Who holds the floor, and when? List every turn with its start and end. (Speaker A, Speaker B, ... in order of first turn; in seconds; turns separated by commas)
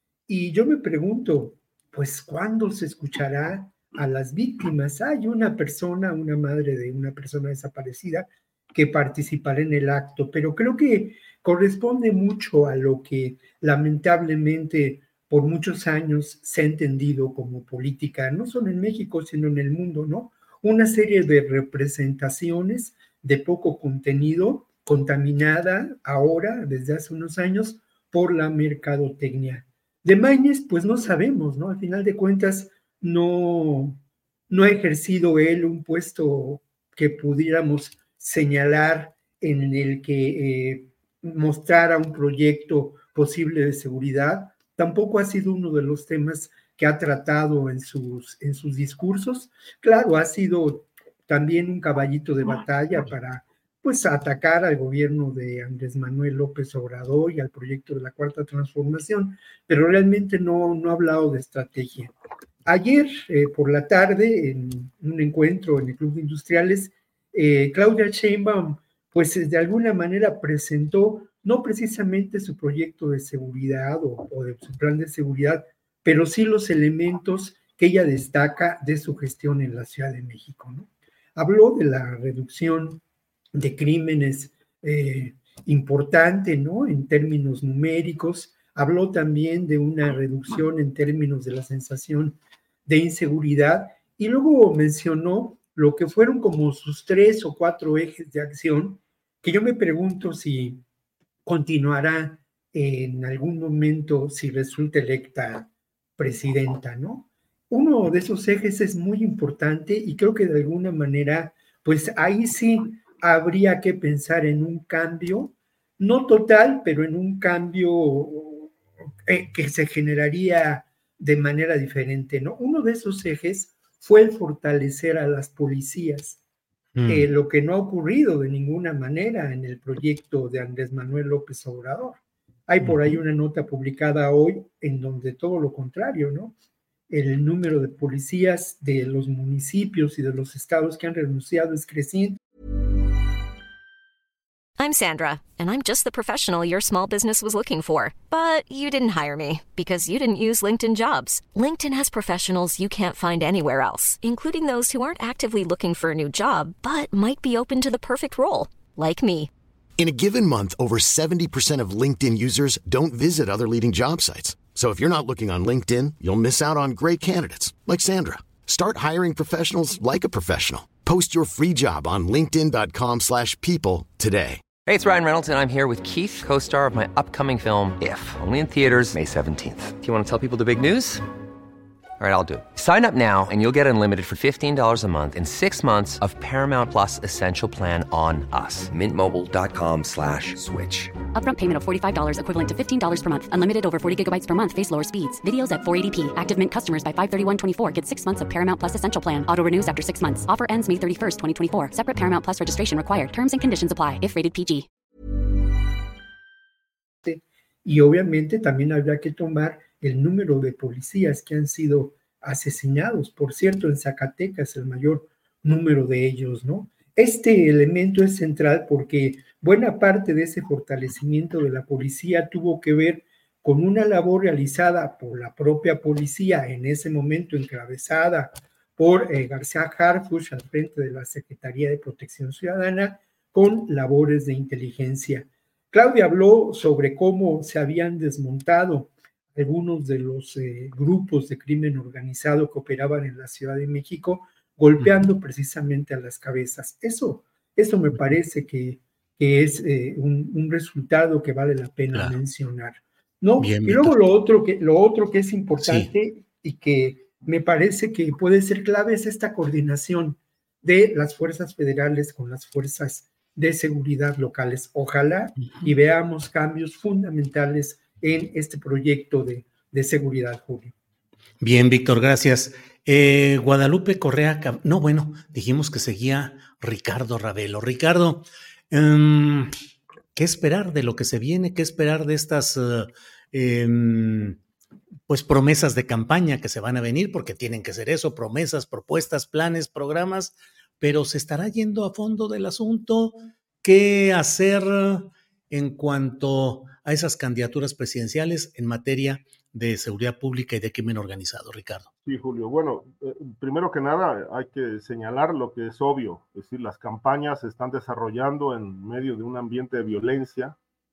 Speaker A: 0.3-34.0, Speaker A: 34.5-83.0, Speaker A: 83.5-100.8, Speaker A: 101.4-118.7, Speaker A: 119.3-126.4, Speaker B: 127.0-127.3, Speaker A: 127.1-136.5, Speaker B: 132.8-133.2, Speaker A: 137.1-142.4, Speaker C: 144.8-159.5, Speaker D: 160.0-174.7, Speaker E: 174.8-181.2, Speaker E: 182.2-191.1, Speaker F: 191.3-204.9, Speaker A: 207.2-270.9, Speaker B: 245.0-245.3, Speaker B: 253.6-254.3, Speaker B: 255.8-256.1, Speaker B: 265.6-265.9, Speaker B: 271.6-279.7, Speaker B: 280.3-284.6, Speaker B: 285.3-302.1, Speaker G: 302.2-310.8